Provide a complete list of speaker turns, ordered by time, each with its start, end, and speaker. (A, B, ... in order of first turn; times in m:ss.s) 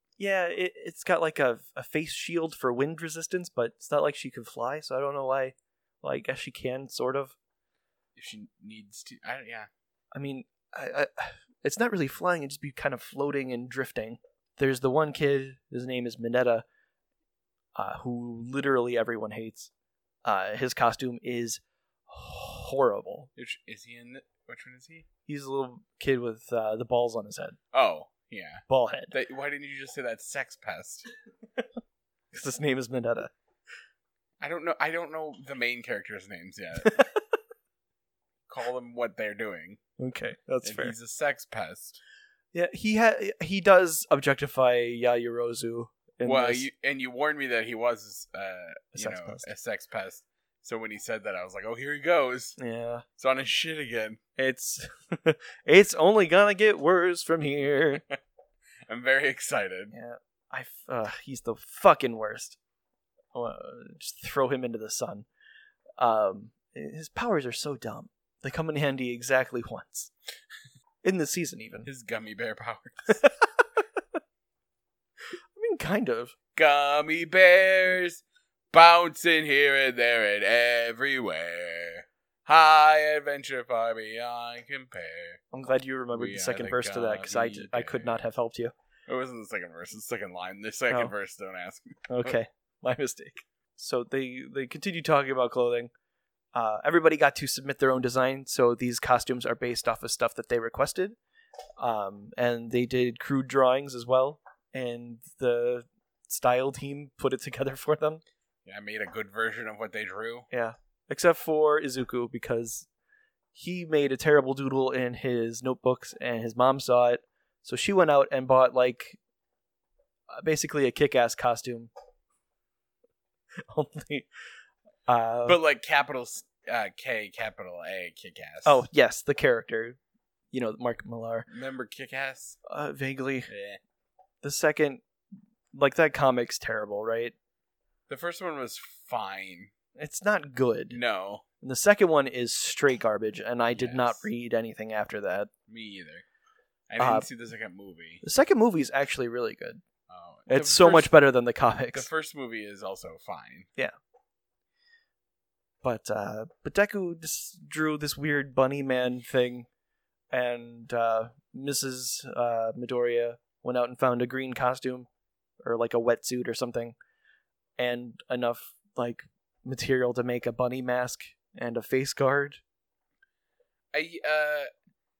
0:00.2-0:07.4 A
0:08.2-0:09.7 B
0:10.1-0:16.6 A
0:17.8-0:19.7 A
0:20.2-0:23.3 A
0:23.4-0:25.1 B
0:25.3-0:27.6 A
0:27.7-0:31.1 B
0:28.7-0:29.1 A
0:32.3-0:33.3 A
0:34.4-0:37.0 B
0:36.8-0:37.1 A
0:38.5-0:39.8 B
0:40.0-0:41.0 A
0:40.6-0:42.0 B
0:42.5-0:46.7 A
0:46.2-0:52.6 B
0:49.0-0:49.4 A
0:52.6-0:53.0 A
0:53.2-0:54.2 B
0:54.4-0:58.0 A
0:58.9-0:59.9 B
0:59.9-1:02.6 A
1:03.3-1:05.3 A
1:06.0-1:10.1 A
1:11.0-1:11.9 A
1:11.8-1:13.2 B
1:15.6-1:16.4 A
1:16.6-1:25.4 B
1:25.5-1:28.7 A
1:26.1-1:28.2 B
1:29.1-1:32.4 B
1:32.1-1:35.9 A
1:36.5-1:41.2 A
1:41.8-1:48.2 A
1:48.6-1:50.5 B
1:50.5-1:52.9 A
1:53.6-1:59.2 A
2:00.3-2:01.9 A
2:03.7-2:04.3 A
2:05.1-2:05.6 A
2:05.4-2:08.9 B
2:08.6-2:10.0 A
2:10.5-2:11.5 A
2:11.5-2:12.6 B
2:12.7-2:13.5 A
2:13.5-2:13.8 B
2:14.4-2:15.0 A
2:15.7-2:17.3 A
2:18.1-2:19.7 B
2:20.0-2:21.0 A
2:20.9-2:21.4 B
2:21.6-2:25.5 A
2:23.7-2:24.3 B
2:25.7-2:26.2 B
2:26.9-2:28.2 B
2:27.0-2:27.3 A
2:28.2-2:29.8 A
2:30.1-2:31.1 B
2:30.5-2:32.1 A
2:31.9-2:33.7 B
2:35.8-2:39.7 A
2:40.3-2:45.1 A
2:45.6-2:47.0 A
2:47.8-2:52.6 A
2:53.9-2:54.7 B